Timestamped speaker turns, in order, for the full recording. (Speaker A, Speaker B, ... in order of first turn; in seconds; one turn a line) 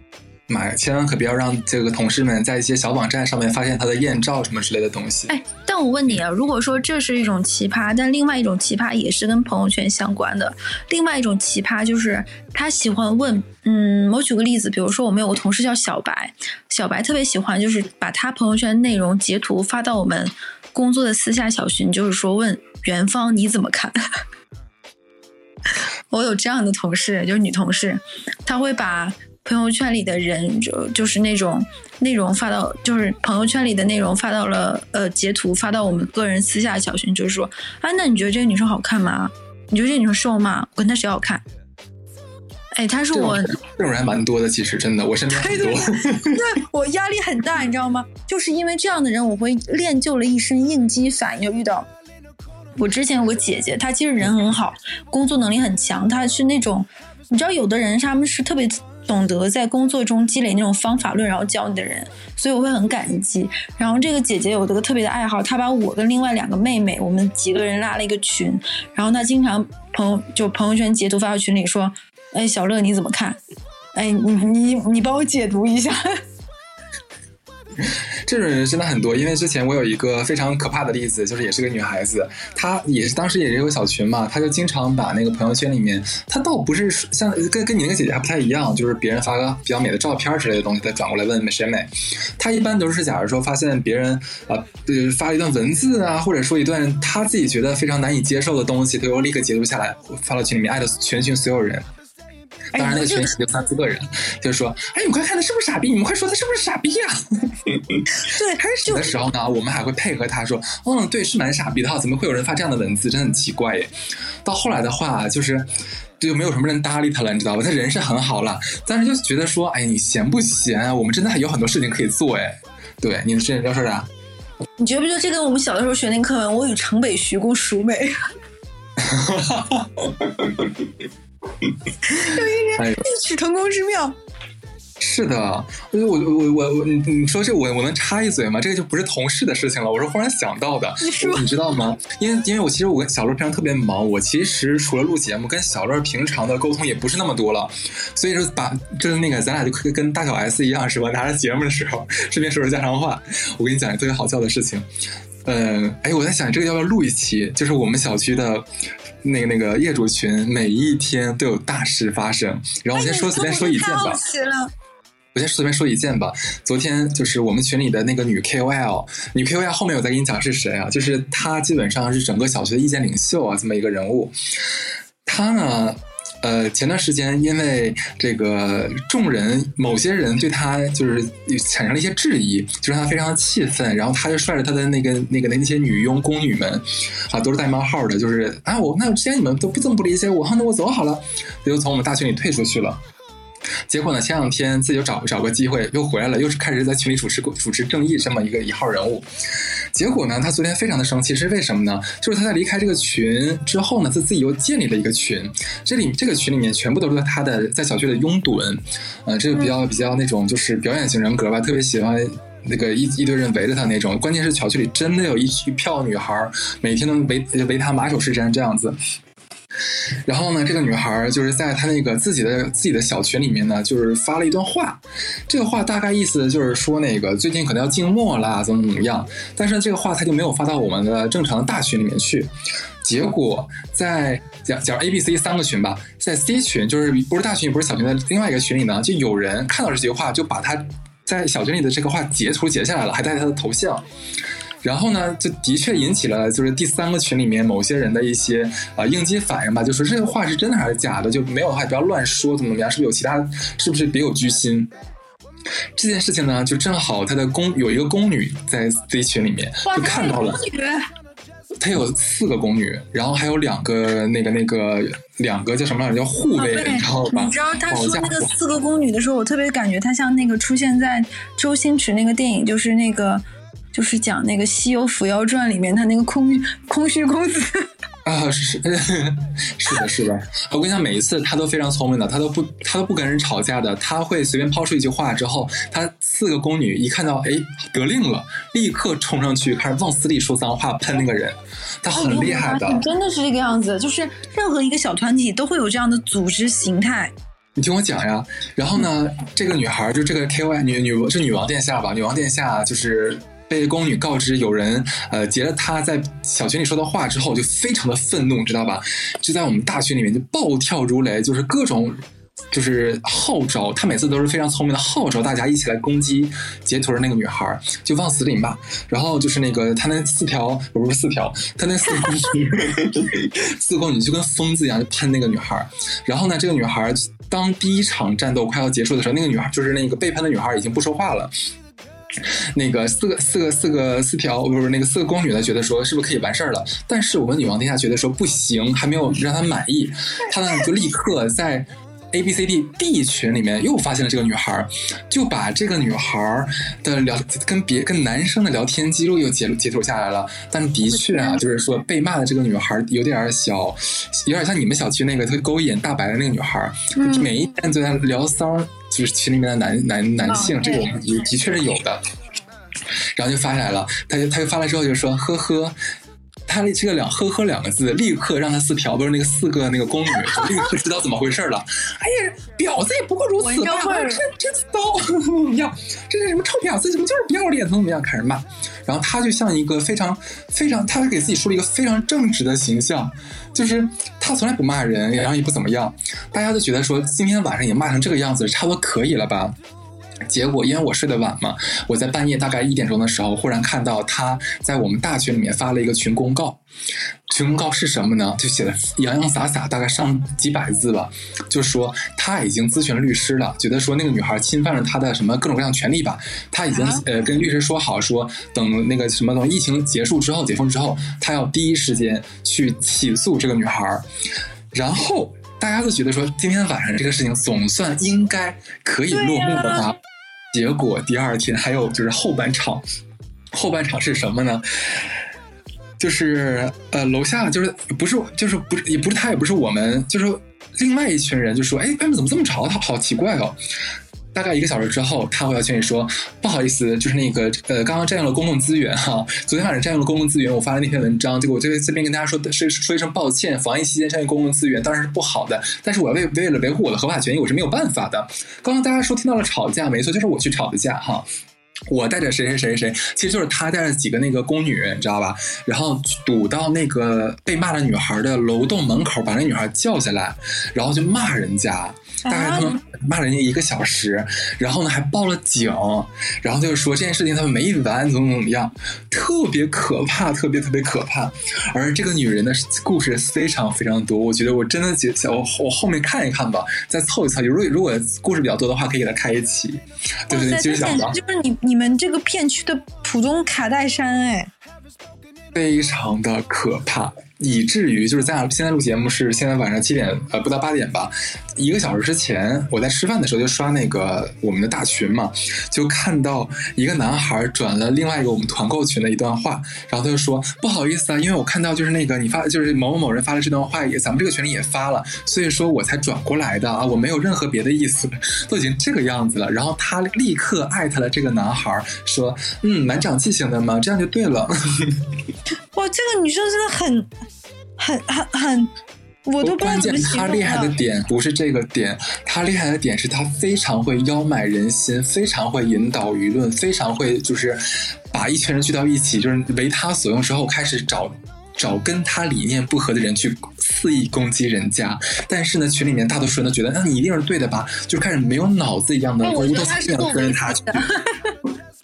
Speaker A: 0.5-5.3
Speaker B: 5.3-24.0
Speaker B: 26.1-41.4
Speaker B: 42.7-43.5
Speaker A: 43.1-46.4
Speaker B: 45.3-51.9
Speaker B: 52.8-73.4
Speaker B: 73.9-76.0
Speaker A: 77.8-101.9
Speaker B: 102.7-103.3
Speaker A: 102.8-108.2
Speaker B: 108.2-109.1
Speaker A: 108.8-113.9
Speaker A: 114.4-124.1
Speaker B: 124.8-128.1
Speaker A: 129.0-130.9
Speaker B: 132.1-134.2
Speaker A: 132.8-133.0
Speaker A: 135.0-154.8
Speaker B: 141.0-141.5
Speaker A: 155.4-158.6
Speaker A: 159.2-164.2
Speaker B: 162.9-164.7
Speaker A: 165.3-174.3
Speaker A: 175.2-193.0
Speaker A: 193.9-199.3
Speaker A: 199.9-219.0
Speaker A: 220.2-232.5
Speaker A: 233.0-244.0
Speaker A: 244.8-254.9
Speaker A: 255.9-260.6
Speaker B: 259.8-261.1
Speaker A: 261.8-268.5
Speaker B: 266.6-277.9
Speaker A: 278.2-293.1
Speaker B: 292.1-297.3
Speaker A: 297.8-312.2
Speaker A: 312.7-331.5
Speaker A: 332.4-362.2
Speaker B: 351.1-351.6
Speaker B: 357.1-357.5
Speaker B: 360.4-361.1
Speaker A: 363.3-365.9
Speaker A: 366.7-389.8
Speaker B: 373.6-374.4
Speaker A: 390.5-396.8
Speaker A: 397.5-414.2
Speaker B: 406.9-407.2
Speaker A: 414.9-420.2
Speaker B: 419.3-420.1
Speaker A: 420.7-423.0
Speaker A: 423.7-425.3
Speaker A: 426.2-433.8
Speaker A: 434.5-451.4
Speaker A: 452.1-481.4
Speaker B: 462.4-463.0
Speaker B: 480.5-484.7
Speaker A: 485.7-515.2
Speaker B: 515.9-517.3
Speaker B: 518.0-518.9
Speaker B: 519.5-520.9
Speaker A: 519.6-541.0
Speaker B: 539.4-541.5